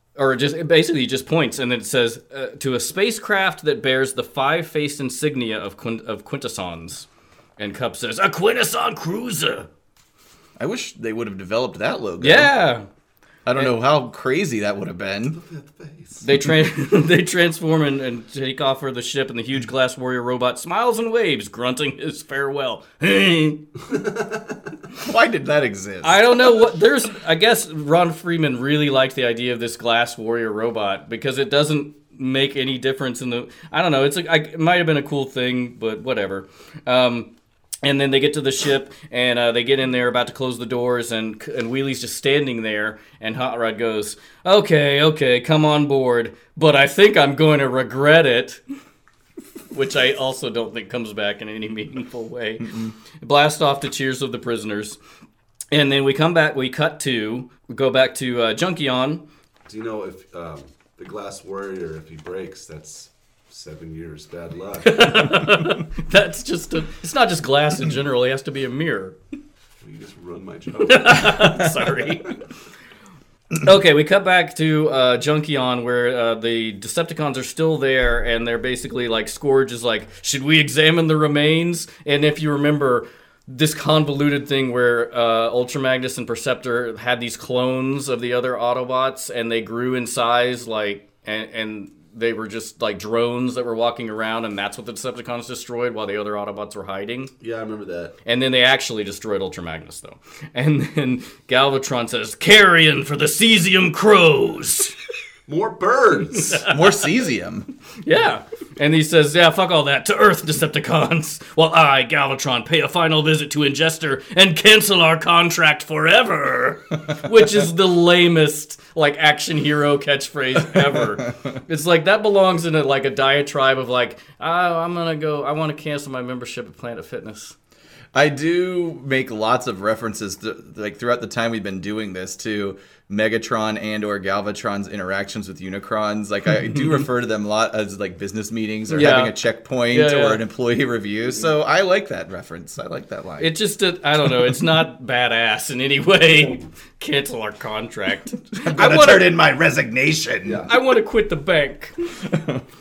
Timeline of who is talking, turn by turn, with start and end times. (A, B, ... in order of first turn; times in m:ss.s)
0:00.2-0:07.1 A
0:07.6-0:09.7 A
0:10.6-0:12.5 B
0:12.2-0:12.8 A
0:13.4-0:15.4 B
0:15.3-0:16.2 C
0:16.2-0:23.6 A
0:23.9-0:24.6 C
0:25.0-0:26.5 B
0:26.0-0:37.3 A
0:37.8-0:48.6 A
0:49.7-0:55.0 A
0:52.6-0:52.9 B
0:55.7-0:59.2 A
0:59.7-1:05.3 C
1:04.8-1:09.2 A
1:09.8-1:11.6 C
1:10.8-1:12.4 A
1:13.6-1:37.3 A
1:37.4-1:38.1 C
1:38.2-1:44.9 A
1:45.5-1:46.6 C
1:46.3-1:46.7 A
1:46.7-1:47.7 B
1:48.0-2:07.5 A
2:08.1-2:23.5 B
2:18.9-2:19.4 A
2:19.9-2:20.4 A
2:23.4-2:29.3 A
2:28.6-2:30.7 B
2:30.6-2:31.9 A
2:32.3-2:32.6 B